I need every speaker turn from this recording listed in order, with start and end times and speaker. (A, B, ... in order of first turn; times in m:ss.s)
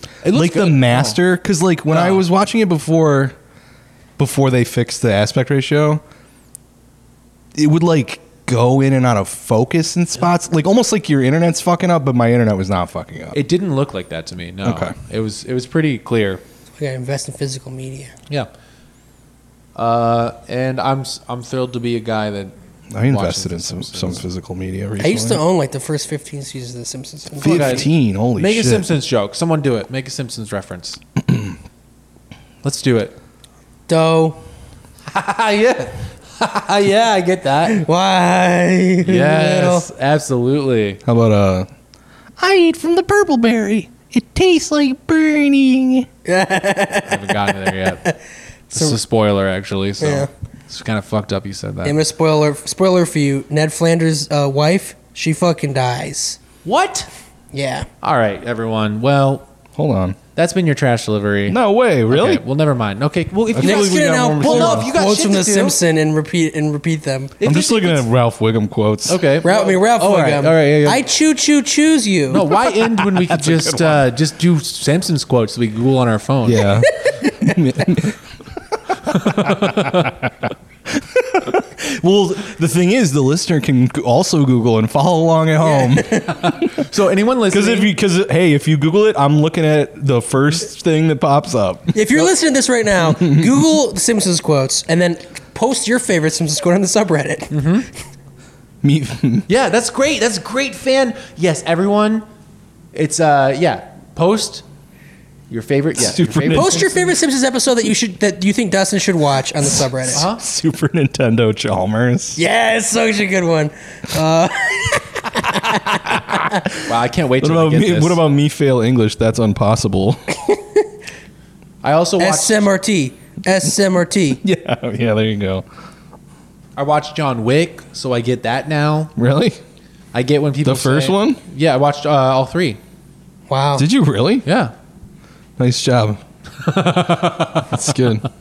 0:00.2-0:01.2 A
0:00.3-0:03.4 B
0:01.9-0:02.2 A
0:04.2-0:06.0 B
0:07.6-0:13.4 B
0:13.3-0:16.4 A
0:14.6-0:15.0 B
0:16.8-0:18.1 C
0:19.8-0:22.5 A
0:22.9-0:25.4 B
0:23.1-0:24.2 A
0:25.0-0:27.9 C
0:27.4-0:28.9 B
0:27.4-0:31.0 A
0:31.2-0:31.6 B
0:32.6-0:33.2 A
0:33.9-0:34.4 C
0:35.1-0:37.8 A
0:37.7-0:39.9 C
0:39.0-0:41.0 A
0:41.0-0:41.7 B
0:42.4-0:46.1 B
0:46.2-0:48.1 C
0:47.1-0:48.1 A
0:48.7-0:52.0 A
0:50.0-0:50.3 C
0:51.8-0:56.4 C
0:56.6-0:57.1 A
0:57.5-0:57.9 C
0:58.0-0:59.5 A
0:59.8-1:00.2 B
1:00.4-1:05.8 A
1:01.5-1:02.4 B
1:03.5-1:04.9 B
1:03.6-1:07.4 C
1:07.4-1:08.0 A
1:07.4-1:09.3 B
1:09.1-1:11.1 A
1:09.4-1:12.5 C
1:12.3-1:16.7 A
1:13.2-1:14.1 B
1:16.4-1:18.2 B
1:19.1-1:20.3 B
1:19.2-1:20.1 A
1:20.9-1:26.7 B
1:25.6-1:26.4 C
1:26.4-1:27.9 A
1:27.5-1:32.0 B
1:31.9-1:37.7 C
1:33.1-1:33.5 B
1:37.5-1:37.9 A
1:38.8-1:39.5 B
1:39.5-1:42.2 A
1:42.9-1:44.6 A
1:45.5-1:47.0 A
1:46.0-1:46.9 B
1:46.5-1:50.2 C
1:50.1-1:52.4 B
1:50.2-1:50.4 A
1:52.4-1:56.2 C
1:56.8-1:58.2 A
1:57.4-2:00.2 B
2:01.8-2:02.7 A
2:02.2-2:04.4 C
2:04.4-2:05.7 B
2:06.8-2:09.1 A
2:09.2-2:09.6 B
2:10.1-2:12.8 A
2:10.6-2:11.4 B
2:13.5-2:13.9 C
2:13.8-2:14.5 B
2:14.5-2:14.7 A
2:15.6-2:16.2 B
2:16.6-2:17.8 A
2:17.7-2:18.3 B